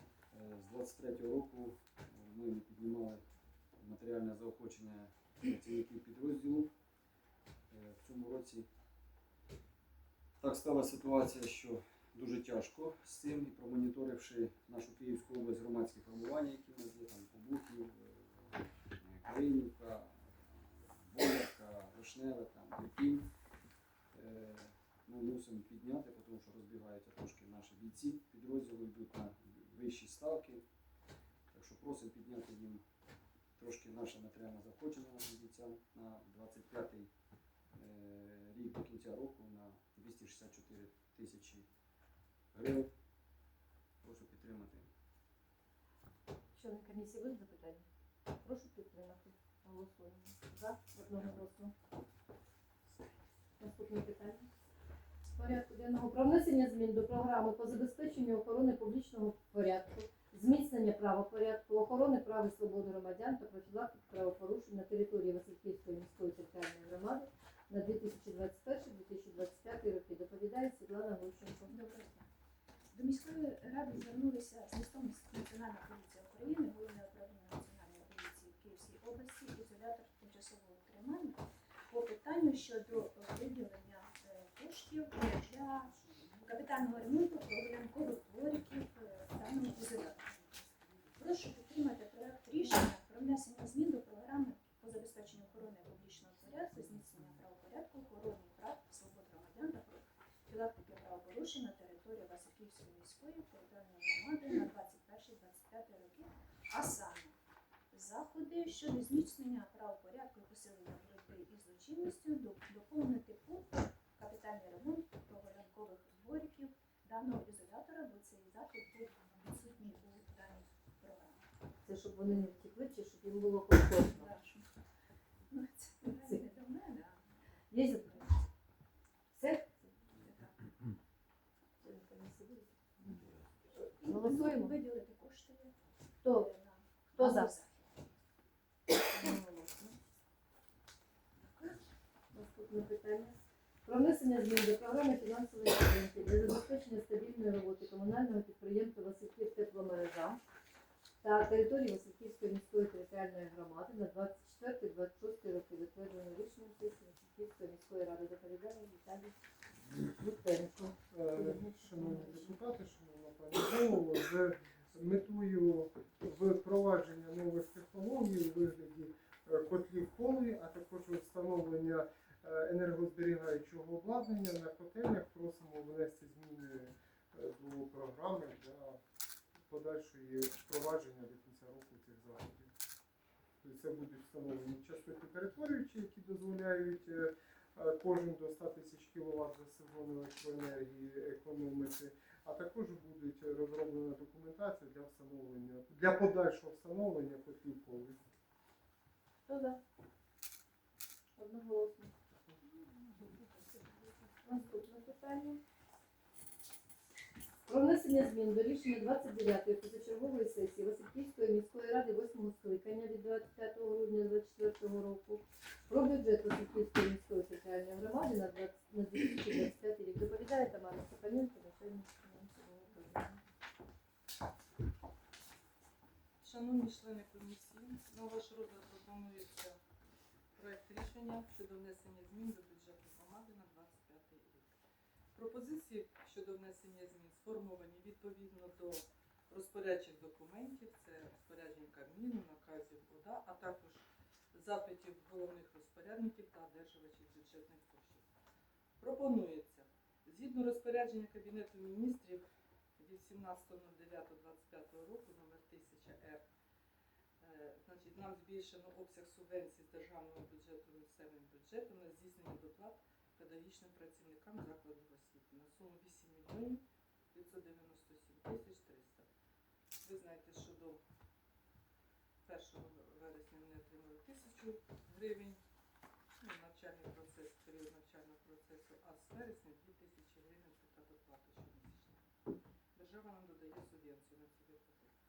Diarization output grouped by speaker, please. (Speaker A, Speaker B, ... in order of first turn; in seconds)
Speaker A: 0.3-3.2, 3.8-6.7, 7.7-8.7, 10.4-23.3, 24.1-30.6, 31.5-32.8, 33.6-37.1, 37.8-41.7, 42.5-42.9, 44.0-44.9
Speaker B: 46.5-47.9, 48.4-51.7, 53.6-54.5, 55.3-71.7, 121.8-124.3, 127.7-128.3, 129.3-129.9, 131.8-133.2, 134.1-134.8, 136.2-136.5, 137.1-137.5, 142.3-150.4, 151.2-159.4, 160.0-162.6, 199.5-199.8, 201.4-202.1, 204.4-205.6, 207.7-223.4
Speaker C: 71.7-72.3, 72.9-90.5, 91.2-107.3, 107.9-121.5, 123.9-124.7, 125.5-127.3, 130.2-130.5, 133.7-135.7, 136.3-137.9
Speaker D: 161.1-179.0, 179.7-182.7, 183.6-198.2
Speaker E: 203.2-203.8, 226.4-229.8, 230.6-234.7, 235.3-248.2, 249.0-252.5, 253.0-256.4, 257.4-266.8, 267.3-269.3, 270.0-271.0, 272.4-275.6, 276.4-282.2, 282.9-285.1